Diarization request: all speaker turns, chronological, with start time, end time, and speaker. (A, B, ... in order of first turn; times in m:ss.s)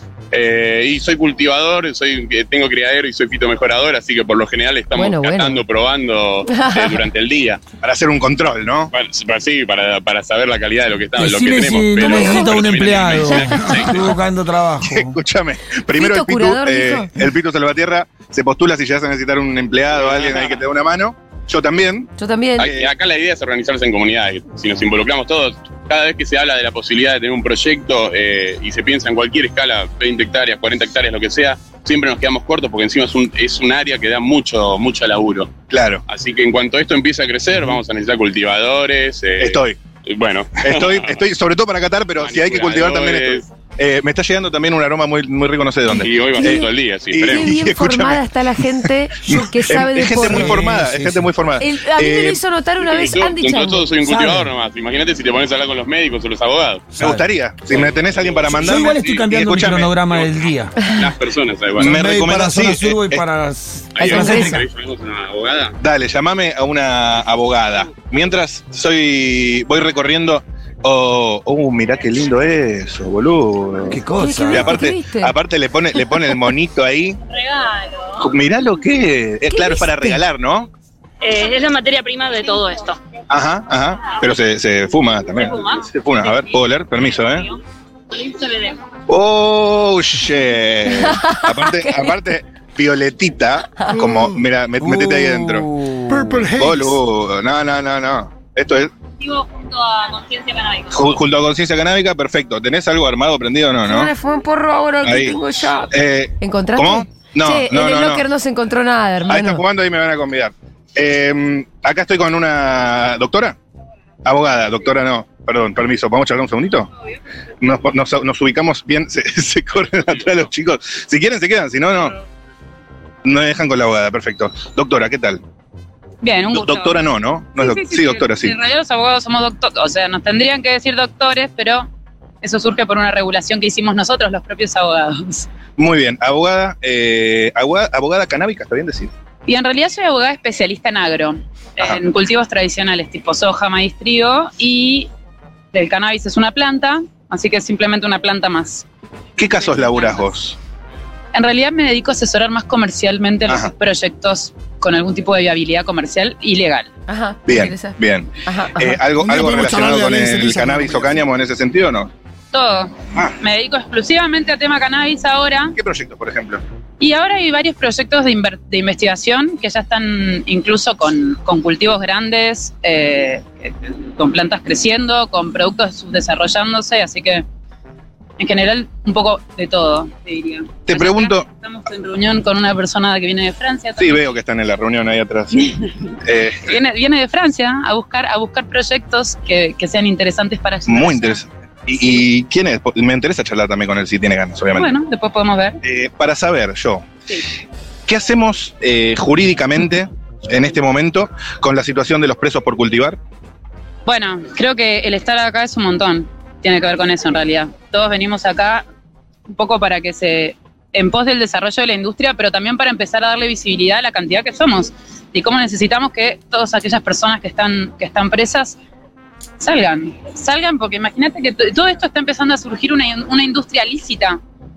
0:00.3-0:07.6 A
0:05.0-0:05.6 B
0:06.5-0:07.0 B
0:07.8-0:08.9 C
0:08.9-0:14.1 A
0:11.2-0:15.2 D
0:12.0-0:12.5 B
0:13.3-0:13.9 B
0:14.8-0:22.9 C
0:15.9-0:17.1 B
0:19.9-0:20.6 A
0:22.2-0:22.7 B
0:22.6-0:35.5 A
0:35.7-0:36.0 C
0:36.1-0:41.2 A
0:39.4-0:39.8 C
0:40.6-0:48.2 C
0:42.2-0:43.5 A
0:45.9-0:47.5 A
0:46.4-0:46.7 B
0:47.2-0:50.6 B
0:49.3-0:52.4 C
0:50.1-0:51.3 D
0:51.6-0:53.9 B
0:52.8-0:57.0 A
0:54.0-0:54.5 D
0:57.0-0:57.2 D
0:57.0-1:00.0 C
0:57.7-0:59.3 A
0:58.5-1:00.8 D
1:00.1-1:02.1 A
1:01.8-1:03.2 C
1:01.8-1:04.6 D
1:04.0-1:05.8 A
1:04.0-1:04.6 B
1:05.8-1:17.2 C
1:13.9-1:14.8 D
1:14.2-1:15.3 B
1:17.4-1:18.1 E
1:18.2-1:20.7 C
1:19.5-1:20.2 B
1:21.2-1:22.6 E
1:23.3-1:27.5 C
1:29.1-1:35.7 C
1:30.9-1:32.1 B
1:34.0-1:34.2 F
1:34.8-1:36.5 D
1:36.1-1:37.0 F
1:36.6-1:38.9 C
1:39.2-1:41.0 E
1:40.9-1:44.1 C
1:43.8-1:49.6 B
1:45.0-1:48.3 C
1:49.3-1:53.6 C
1:54.2-1:56.9 C
1:57.6-2:02.2 C
2:03.2-2:05.4 C
2:06.2-2:07.0 G
2:06.5-2:08.5 C
2:07.6-2:11.9 G
2:12.4-2:15.5 G
2:15.8-2:19.1 C
2:19.5-2:25.1 G
2:25.7-2:28.8 G
2:29.4-2:30.6 C
2:29.6-2:30.3 G
2:31.3-2:36.9 G
2:37.1-2:39.0 B
2:37.5-2:42.1 C
2:39.2-2:41.2 F
2:42.5-2:45.8 G
2:45.7-2:46.6 C
2:47.0-2:57.4 G
2:58.4-3:04.2 G
3:00.9-3:01.5 C
3:04.0-3:06.7 C
3:06.6-3:11.4 G
3:10.9-3:14.9 C
3:14.8-3:15.8 G
3:15.8-3:17.1 C
3:18.1-3:23.2 C
3:24.1-3:28.8 G
3:29.5-3:38.8 G
3:39.6-3:44.4 G